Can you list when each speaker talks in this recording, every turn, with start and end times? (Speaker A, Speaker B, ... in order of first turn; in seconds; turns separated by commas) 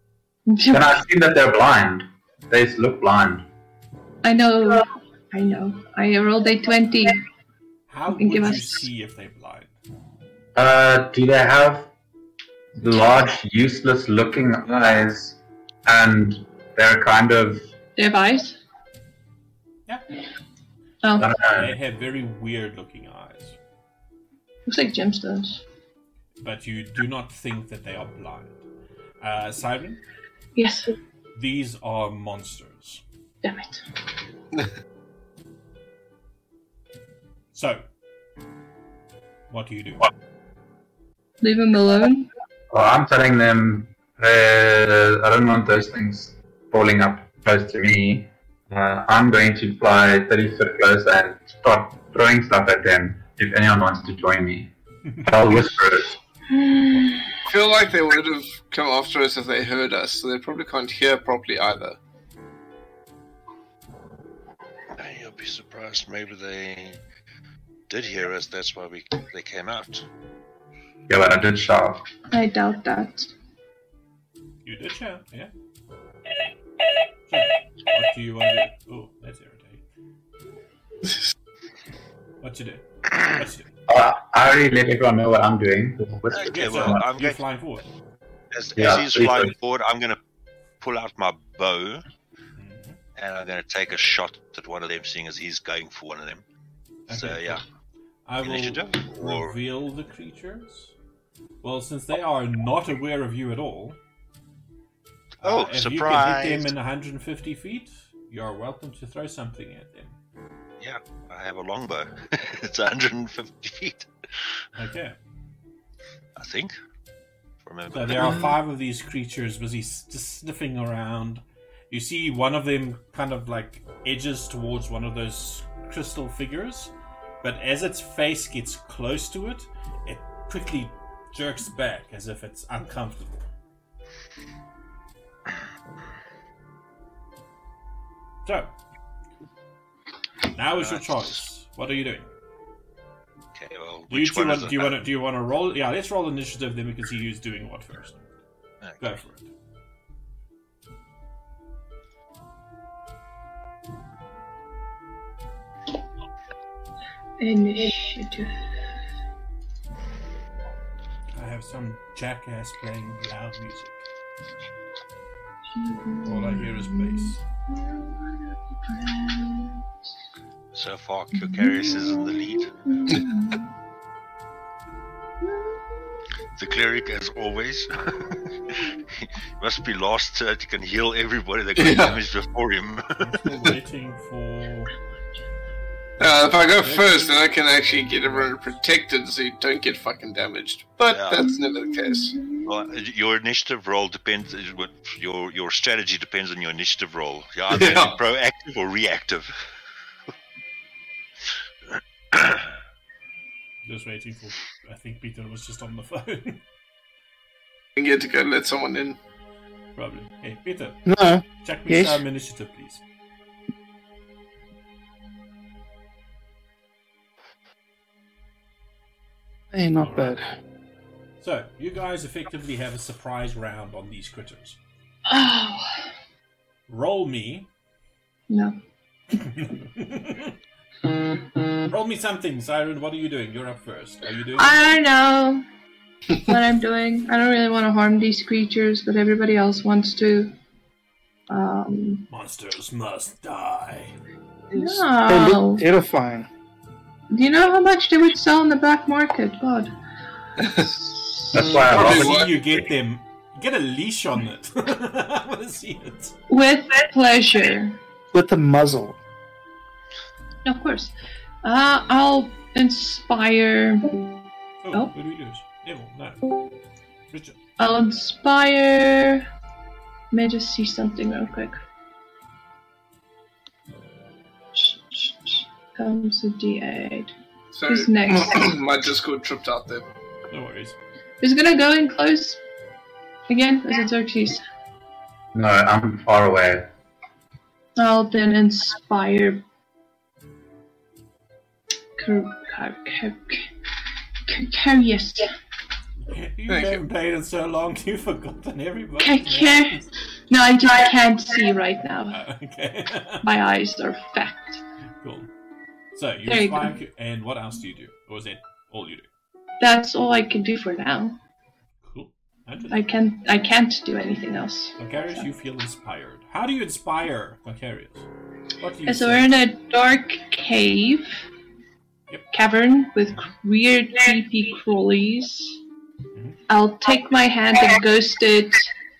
Speaker A: 0.5-0.9, Speaker B: 0.7-3.5, Speaker A: 4.2-7.2, Speaker C: 7.9-9.7, Speaker A: 8.1-8.8, Speaker B: 10.6-11.9, Speaker B: 12.7-17.7, Speaker A: 18.0-18.6, Speaker B: 21.1-21.7, Speaker C: 21.4-23.6, Speaker A: 24.7-25.6, Speaker C: 26.4-28.6, Speaker C: 29.2-30.0, Speaker A: 30.5-30.9, Speaker C: 31.3-33.0, Speaker A: 33.4-33.8, Speaker C: 37.5-37.9, Speaker C: 39.5-40.1, Speaker A: 41.4-42.3, Speaker B: 42.7-54.7, Speaker B: 55.2-56.2, Speaker A: 56.5-57.4, Speaker C: 56.9-57.1, Speaker D: 57.4-62.0, Speaker E: 64.9-67.0, Speaker E: 67.9-70.0, Speaker B: 71.1-72.1, Speaker A: 72.3-73.3, Speaker C: 74.6-75.5, Speaker C: 77.3-79.8, Speaker D: 81.0-81.3, Speaker C: 82.4-83.8, Speaker B: 83.9-87.0, Speaker E: 86.3-87.4, Speaker C: 86.5-87.9, Speaker E: 88.5-90.2, Speaker B: 88.8-89.5, Speaker E: 90.8-92.0, Speaker C: 92.5-93.0, Speaker E: 93.2-96.4, Speaker C: 97.1-97.6, Speaker E: 97.1-97.6, Speaker C: 98.2-100.9, Speaker E: 98.4-99.5, Speaker C: 101.6-104.0, Speaker E: 105.4-106.7, Speaker C: 105.4-110.2, Speaker E: 110.8-114.5, Speaker C: 114.8-115.2, Speaker E: 116.4-116.8, Speaker E: 117.6-118.5, Speaker C: 117.9-133.5, Speaker C: 138.4-138.7, Speaker C: 140.5-142.3, Speaker E: 140.8-141.4, Speaker E: 143.5-144.9, Speaker C: 144.1-148.3, Speaker E: 148.8-149.1, Speaker C: 149.0-149.5, Speaker A: 157.4-158.5, Speaker C: 161.3-164.1, Speaker A: 165.7-169.8, Speaker C: 166.2-167.4, Speaker E: 170.7-173.0, Speaker A: 171.5-171.8, Speaker A: 172.8-173.7, Speaker A: 175.4-175.8, Speaker E: 176.5-183.2, Speaker D: 181.8-182.2, Speaker C: 183.2-184.9, Speaker D: 186.2-192.3, Speaker C: 186.8-188.8, Speaker E: 191.1-191.5, Speaker A: 191.4-192.7, Speaker E: 192.6-199.8, Speaker D: 197.7-198.1, Speaker E: 202.3-202.6, Speaker C: 203.8-206.6, Speaker D: 207.9-209.2, Speaker C: 209.9-213.0, Speaker F: 211.0-212.2, Speaker F: 219.7-220.5, Speaker C: 220.0-220.4, Speaker C: 221.4-224.8, Speaker A: 225.3-226.0, Speaker C: 226.9-227.7, Speaker A: 228.5-228.8, Speaker C: 229.3-230.5, Speaker C: 231.9-234.8, Speaker A: 234.6-235.7, Speaker A: 236.4-240.5, Speaker A: 241.5-242.2, Speaker C: 242.3-244.1, Speaker A: 244.7-245.8, Speaker F: 244.8-246.5, Speaker A: 247.3-249.9, Speaker D: 250.6-250.9, Speaker A: 250.8-251.7, Speaker B: 251.5-252.4, Speaker C: 251.7-256.4, Speaker D: 251.8-252.6, Speaker A: 256.5-258.0, Speaker F: 258.3-259.2, Speaker A: 260.6-264.4, Speaker C: 264.8-266.5, Speaker C: 267.3-267.6, Speaker A: 267.8-269.4, Speaker A: 270.3-271.8, Speaker A: 274.7-277.3, Speaker D: 277.7-280.1, Speaker A: 277.9-278.7, Speaker C: 280.5-281.0, Speaker A: 281.4-282.6, Speaker A: 283.5-284.6, Speaker B: 285.5-286.9, Speaker A: 288.0-289.6, Speaker A: 292.2-293.7, Speaker A: 294.4-295.5, Speaker C: 296.2-300.1, Speaker D: 296.7-297.0, Speaker A: 299.2-302.4, Speaker C: 302.3-303.5, Speaker A: 303.4-304.8, Speaker C: 305.2-305.5, Speaker C: 306.1-309.3, Speaker A: 306.4-306.9, Speaker A: 309.8-311.4, Speaker C: 312.0-313.1, Speaker A: 312.9-315.4, Speaker C: 315.0-318.3, Speaker C: 318.8-319.5, Speaker A: 319.1-321.4, Speaker A: 322.5-325.8, Speaker C: 326.3-326.6, Speaker A: 326.7-328.9